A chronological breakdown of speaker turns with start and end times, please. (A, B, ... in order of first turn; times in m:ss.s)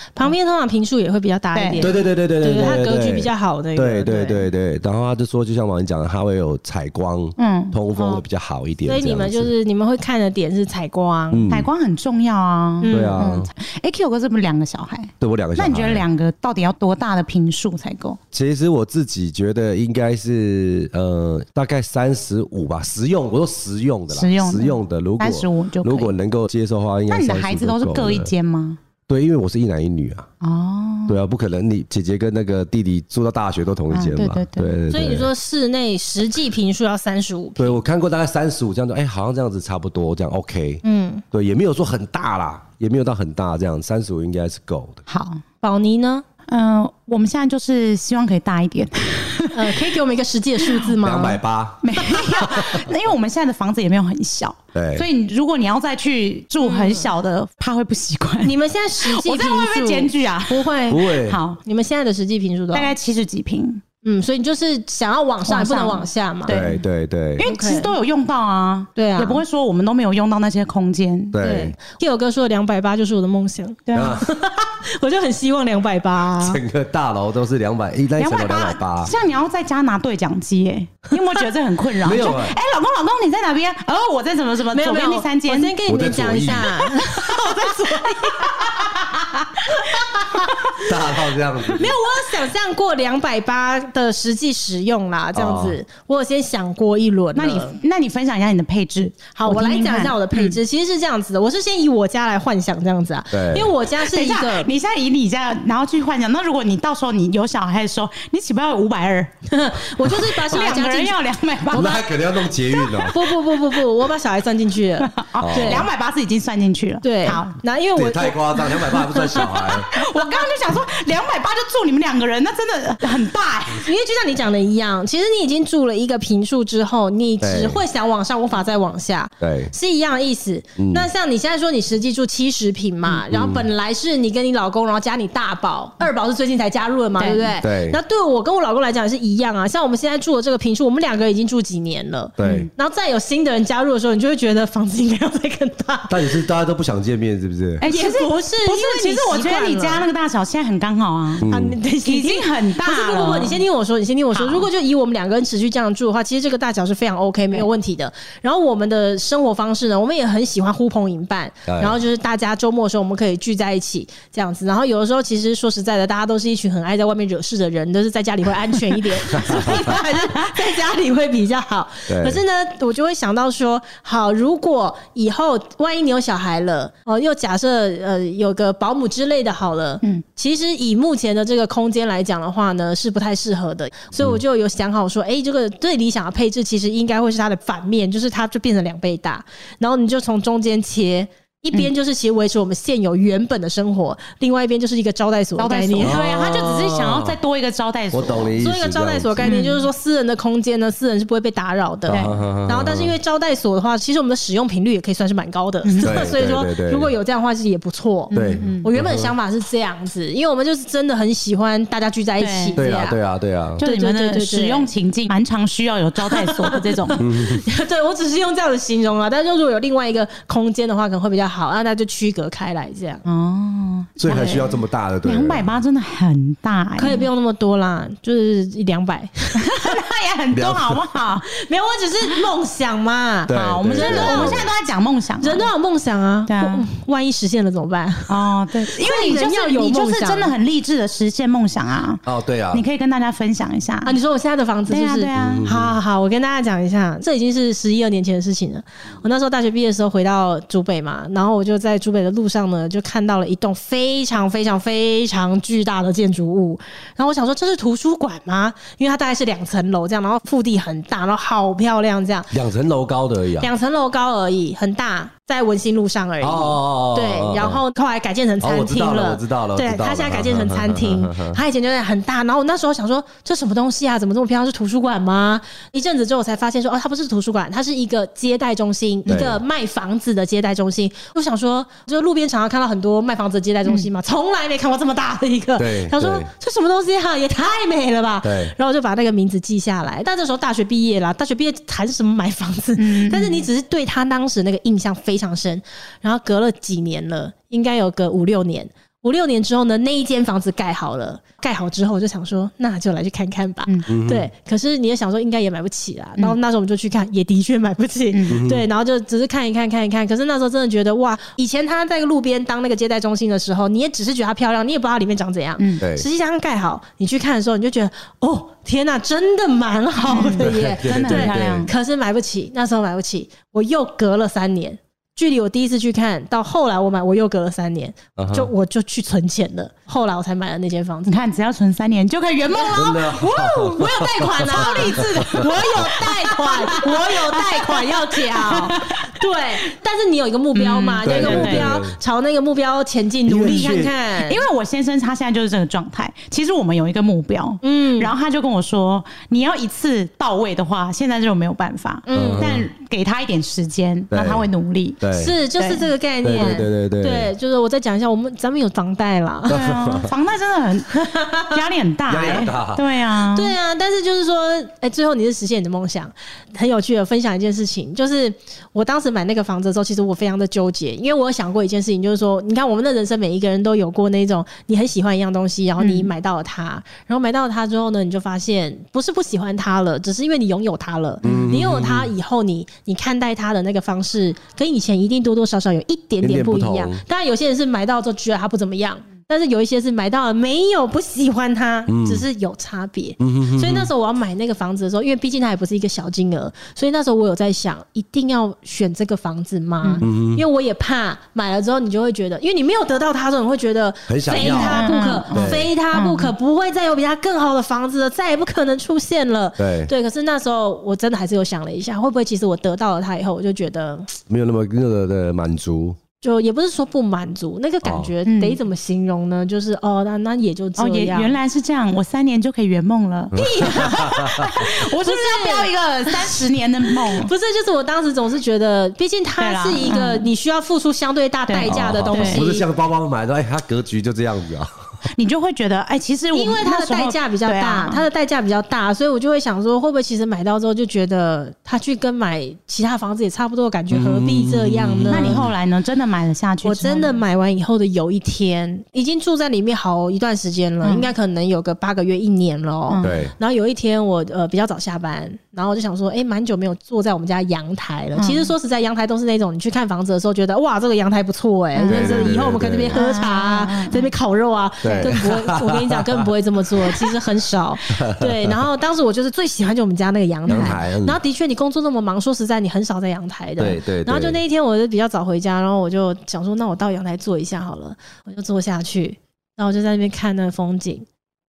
0:00.2-0:04.5 A
0:01.5-0:01.9 B
0:01.8-0:09.5 C
0:07.4-0:08.2 B
0:08.9-0:11.5 A
0:11.3-0:11.7 C
0:11.5-0:18.2 B
0:12.8-0:13.2 A
0:12.9-0:13.5 C
0:15.2-0:16.0 C
0:18.3-0:28.3 C
0:24.1-0:26.1 B
0:27.1-0:28.8 B
0:29.1-0:30.3 C
0:30.4-0:31.2 B
0:31.1-0:35.3 C
0:33.9-0:34.8 B
0:34.9-0:37.8 A
0:37.6-0:45.0 C
0:40.8-0:41.2 A
0:45.1-0:45.4 B
0:45.6-0:46.2 A
0:46.5-0:49.8 B
0:49.5-0:51.4 A
0:50.6-0:50.9 B
0:51.0-0:52.8 C
0:51.8-1:00.7 B
0:54.7-0:55.0 C
0:56.6-0:57.1 A
0:58.4-1:02.9 A
1:00.9-1:01.4 C
1:01.2-1:01.6 B
1:02.7-1:03.8 B
1:04.0-1:06.6 A
1:05.4-1:06.8 B
1:06.4-1:07.4 C
1:07.4-1:11.4 B
1:07.4-1:07.9 A
1:09.0-1:09.4 A
1:11.3-1:11.8 C
1:11.4-1:16.6 A
1:13.9-1:14.2 B
1:13.9-1:14.3 C
1:16.4-1:19.1 C
1:18.2-1:25.7 B
1:22.0-1:22.6 C
1:24.7-1:29.0 A
1:25.9-1:26.8 C
1:27.1-1:27.7 B
1:28.4-1:30.7 B
1:29.7-1:30.9 A
1:30.8-1:31.9 C
1:31.7-1:37.8 A
1:35.3-1:35.8 C
1:37.3-1:40.6 B
1:39.4-1:44.7 A
1:43.3-1:43.7 C
1:44.0-1:49.3 B
1:49.5-1:51.2 A
1:50.0-1:52.0 B
1:51.7-1:53.2 C
1:51.7-1:52.0 A
1:52.8-1:55.9 A
1:55.0-1:57.6 B
1:55.4-1:55.9 C
1:57.0-1:59.5 A
1:58.0-1:59.9 C
1:59.3-2:03.9 B
2:03.8-2:26.4 A
2:07.4-2:07.8 C
2:09.4-2:09.7 C
2:10.8-2:11.1 C
2:13.2-2:13.7 C
2:17.2-2:17.5 B
2:17.6-2:18.0 C
2:22.4-2:22.7 C
2:22.4-2:22.7 B
2:26.1-2:27.8 C
2:27.8-2:31.5 B
2:27.8-2:30.0 A
2:31.4-2:31.8 C
2:31.4-3:16.2 A
2:32.0-2:33.6 B
2:34.3-2:34.7 B
2:41.7-2:42.0 C
2:49.4-2:50.5 B
2:49.4-2:49.8 C
2:52.1-2:52.4 C
3:15.6-3:18.6 B
3:16.0-3:17.4 C
3:18.1-3:19.5 C
3:18.6-3:33.2 A
3:19.4-3:19.8 B
3:22.1-3:22.3 B
3:22.1-3:23.1 C
3:25.8-3:26.2 B
3:26.0-3:27.1 C
3:28.3-3:28.9 B
3:28.3-3:29.3 C
3:32.4-3:32.8 B
3:32.8-3:33.8 C
3:33.8-3:34.9 A
3:33.8-3:37.2 B
3:36.2-3:43.2 A
3:37.2-3:37.6 C
3:43.2-3:44.2 B
3:44.2-3:45.7 C
3:44.2-3:44.7 A
3:45.2-3:47.3 B
3:47.0-3:50.0 A
3:49.6-3:51.5 B
3:50.5-3:51.0 C
3:51.5-3:54.7 A
3:53.5-3:54.6 C
3:53.5-3:55.7 B
3:55.4-4:00.5 A
3:56.5-3:56.8 B
3:58.3-4:04.1 B
4:02.2-4:02.8 C
4:04.0-4:22.5 A
4:04.9-4:05.6 B
4:05.3-4:06.0 C
4:22.5-4:23.7 C
4:23.6-5:31.4 A
4:26.4-4:27.8 C
4:28.6-4:31.6 C
4:39.3-4:39.6 C
4:45.8-4:46.5 C
4:48.4-4:48.7 C
4:53.0-4:53.7 B
5:04.1-5:04.5 C
5:08.3-5:08.6 B
5:08.5-5:08.8 C
5:16.0-5:16.2 C
5:20.2-5:21.9 B
5:20.6-5:21.9 C
5:28.4-5:28.7 C
5:31.2-5:39.3 B
5:32.6-5:44.6 A
5:32.9-5:35.7 C
5:40.7-5:41.9 B
5:41.2-5:42.1 C
5:43.5-5:44.1 C
5:44.4-5:55.2 B
5:47.8-5:48.3 A
5:52.3-5:52.7 A
5:52.3-5:52.9 C
5:54.3-5:54.6 C
5:55.2-5:55.5 C
5:55.3-5:59.8 A
5:55.7-5:56.8 B
5:56.4-5:57.5 C
5:59.7-6:03.8 B
5:59.7-6:00.3 C
6:01.2-6:01.7 A
6:02.3-6:03.0 C
6:03.4-6:54.3 A
6:16.0-6:16.3 B
6:21.4-6:22.3 C
6:26.4-6:27.2 C
6:32.1-6:32.4 C
6:33.4-6:34.1 C
6:40.2-6:40.6 C
6:44.3-6:45.9 C
6:44.5-6:46.5 B
6:49.8-6:50.1 C
6:54.5-6:56.2 C
6:56.4-7:01.6 A
6:58.0-6:58.3 C
6:58.4-6:58.8 B
7:01.0-7:07.5 B
7:03.5-7:04.8 C
7:03.5-7:12.8 A
7:09.6-7:10.5 B
7:11.7-7:12.6 B
7:11.8-7:14.9 C
7:15.4-7:18.2 B
7:16.5-7:25.6 A
7:24.1-7:25.7 C
7:25.2-7:27.4 B
7:26.8-8:01.2 A
7:31.0-7:31.3 B
7:33.1-7:33.4 B
7:33.2-7:33.5 C
7:38.3-7:38.7 B
7:41.9-7:42.6 B
7:42.0-7:43.2 C
7:43.1-7:44.3 B
7:45.0-7:46.4 C
7:48.1-7:48.7 C
7:50.7-7:51.4 C
7:53.8-7:54.6 C